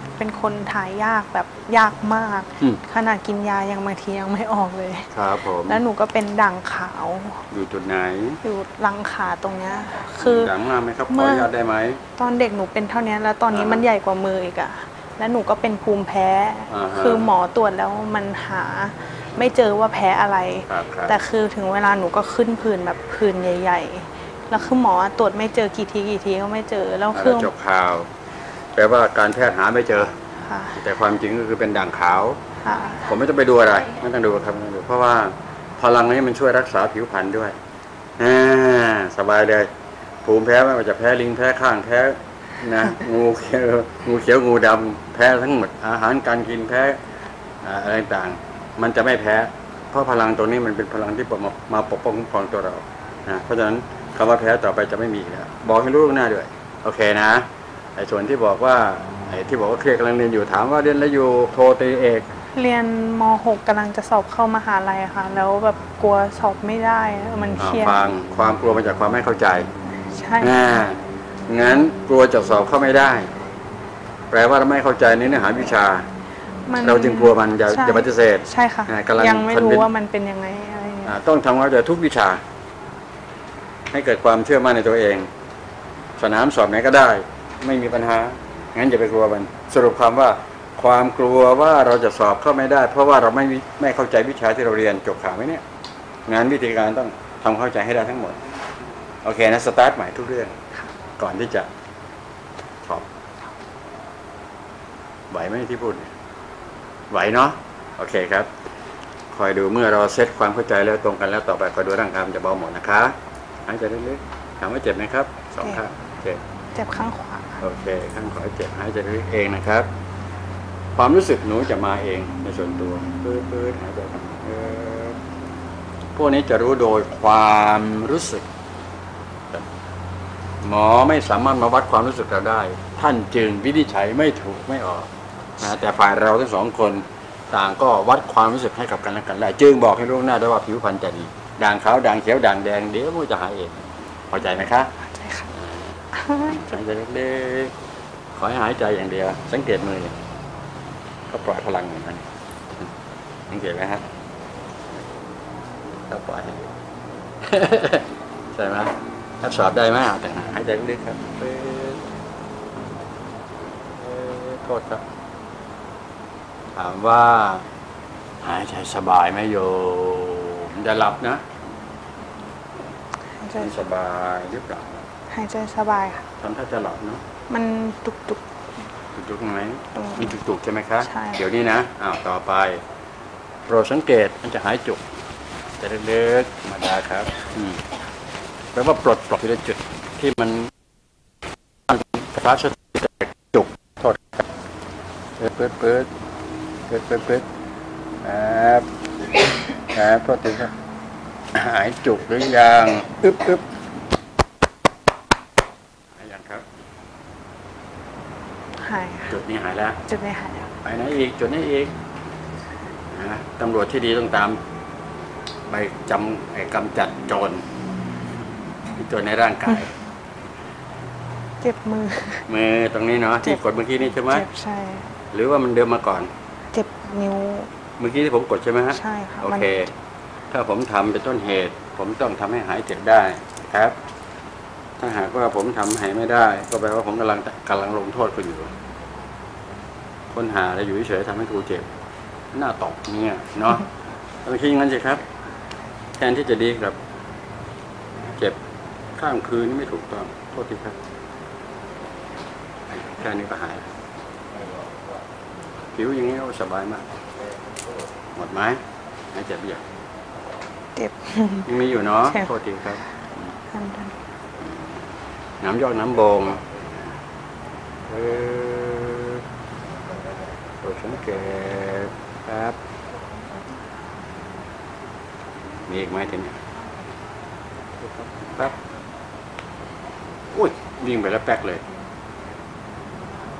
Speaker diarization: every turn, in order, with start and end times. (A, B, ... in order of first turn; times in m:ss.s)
0:00.2-0:05.1 A
0:05.1-0:05.8 B
0:05.6-0:07.4 A
0:07.5-0:08.4 B
0:08.4-0:10.6 A
0:10.2-0:12.0 B
0:11.1-0:11.5 A
0:12.2-0:27.5 A
0:13.5-0:13.8 B
0:16.7-0:17.3 B
0:20.7-0:21.2 B
0:27.1-0:28.1 B
0:28.8-0:30.2 B
0:30.4-0:30.8 A
0:30.8-0:32.4 B
0:32.6-0:33.1 A
0:33.0-0:37.6 B
0:38.2-0:39.7 B
0:40.2-0:47.0 B
0:47.6-1:02.3 B
1:02.5-1:08.0 A
1:07.6-1:09.7 B
1:10.1-1:10.6 A
1:10.4-1:13.3 B
1:14.3-1:16.1 B
1:16.7-1:21.1 A
1:16.8-1:19.9 B
1:21.0-1:22.4 B
1:23.9-1:25.3 B
1:26.2-1:35.6 B
1:36.3-1:38.4 B
1:39.2-1:40.6 B
1:41.2-1:41.7 B
1:45.3-1:46.1 B
1:47.1-1:48.5 B
1:49.3-1:53.2 B
1:53.7-1:56.4 B
1:56.7-1:57.6 A
1:57.6-1:59.9 B
2:01.0-2:05.2 B
2:06.2-2:08.5 B
2:10.6-2:15.1 B
2:15.6-2:24.9 B
2:25.0-2:25.5 A
2:25.5-2:27.7 B
2:26.1-2:26.7 A
2:28.4-2:30.2 B
2:31.3-2:32.3 B
2:33.5-2:34.0 B
2:36.1-2:36.7 B
2:37.4-2:42.0 B
2:44.0-2:45.0 B
2:46.8-2:47.7 B
2:48.4-2:51.5 B
2:53.4-2:53.7 A
2:53.6-2:55.0 B
2:55.3-2:56.3 A
2:56.4-2:57.2 B
2:57.5-2:58.4 A
2:59.2-3:02.8 B
3:00.0-3:00.4 A
3:01.0-3:01.4 A
3:03.7-3:05.0 B
3:05.8-3:07.8 B
3:08.8-3:10.7 B
3:11.9-3:14.2 B
3:15.4-3:16.1 B
3:16.9-3:17.5 B
3:18.2-3:18.9 B
3:19.9-3:20.7 B
3:21.5-3:23.6 B
3:26.2-3:26.6 B
3:28.8-3:29.3 A
3:29.3-3:30.0 B
3:30.0-3:30.7 A
3:30.8-3:31.9 B
3:33.1-3:34.6 B
3:35.7-3:37.6 B
3:38.9-3:39.9 B
3:41.6-3:42.5 A
3:42.5-3:44.5 B
3:43.4-3:45.1 A
3:45.3-3:46.3 B
3:46.7-3:47.7 A
3:48.0-3:49.9 B
3:48.9-3:49.7 A
3:50.5-3:54.0 B
3:55.0-3:58.7 B
4:00.3-4:01.9 B
4:02.5-4:03.9 B
4:04.4-4:05.2 B
4:06.2-4:07.0 B
4:09.2-4:11.0 B
4:12.9-4:13.8 B
4:16.0-4:17.1 B
4:18.4-4:18.8 B
4:19.3-4:19.8 B
4:21.0-4:21.7 A
4:21.7-4:23.6 B
4:23.7-4:24.2 A
4:24.6-4:25.0 B
4:25.6-4:26.6 B
4:28.1-4:29.4 B
4:30.8-4:32.8 B
4:35.9-4:36.6 B
4:38.0-4:38.8 B
4:40.5-4:41.8 B